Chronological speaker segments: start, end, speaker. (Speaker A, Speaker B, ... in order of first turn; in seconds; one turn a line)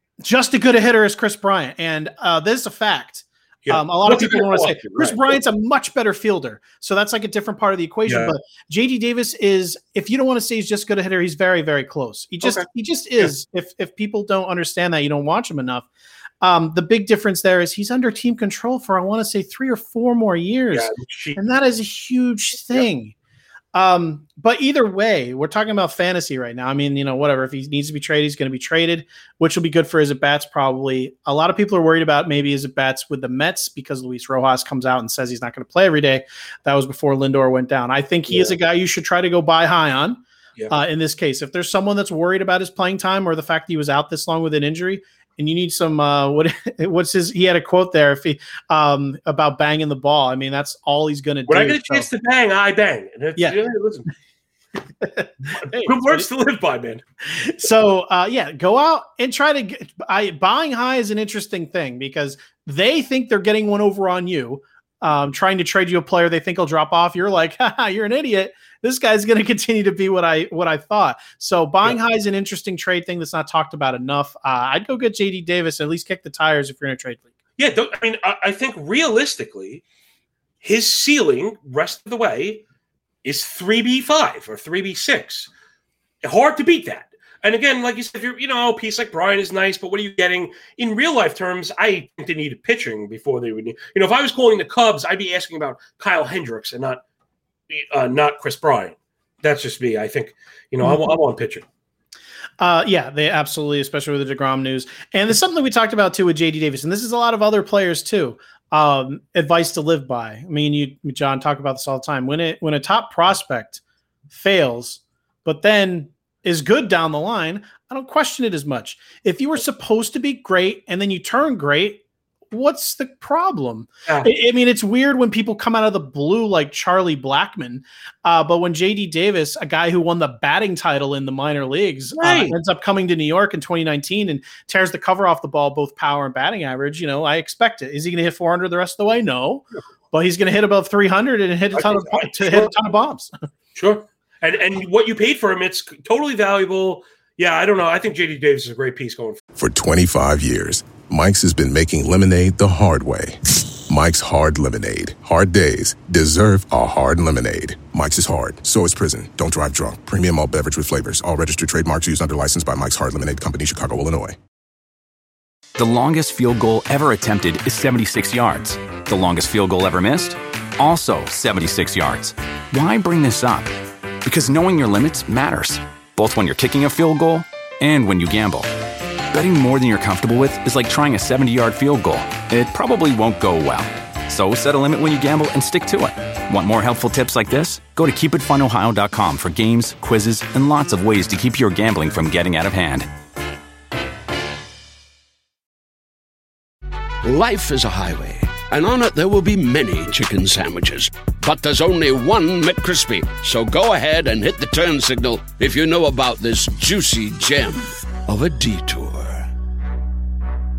Speaker A: 0.2-15.9
Speaker B: 3.7-5.4
Speaker B: 8.1-8.3
Speaker A: 16.4-23.1
Speaker B: 20.7-21.4
Speaker A: 23.7-52.1
Speaker B: 51.5-54.1
Speaker A: 55.0-56.3
Speaker B: 55.5-57.0
Speaker A: 57.3-77.3
Speaker B: 77.6-79.8
Speaker B: 80.6-82.6
Speaker B: 83.2-85.5
Speaker B: 86.2-97.0
Speaker B: 97.7-101.7
Speaker A: 102.6-143.3
Speaker B: 132.2-132.6
Speaker B: 141.8-142.7
Speaker B: 143.8-149.4
Speaker C: 149.6-164.4
Speaker D: 165.8-173.7
Speaker D: 174.2-178.7
Speaker D: 179.3-193.1
Speaker E: 197.2-209.5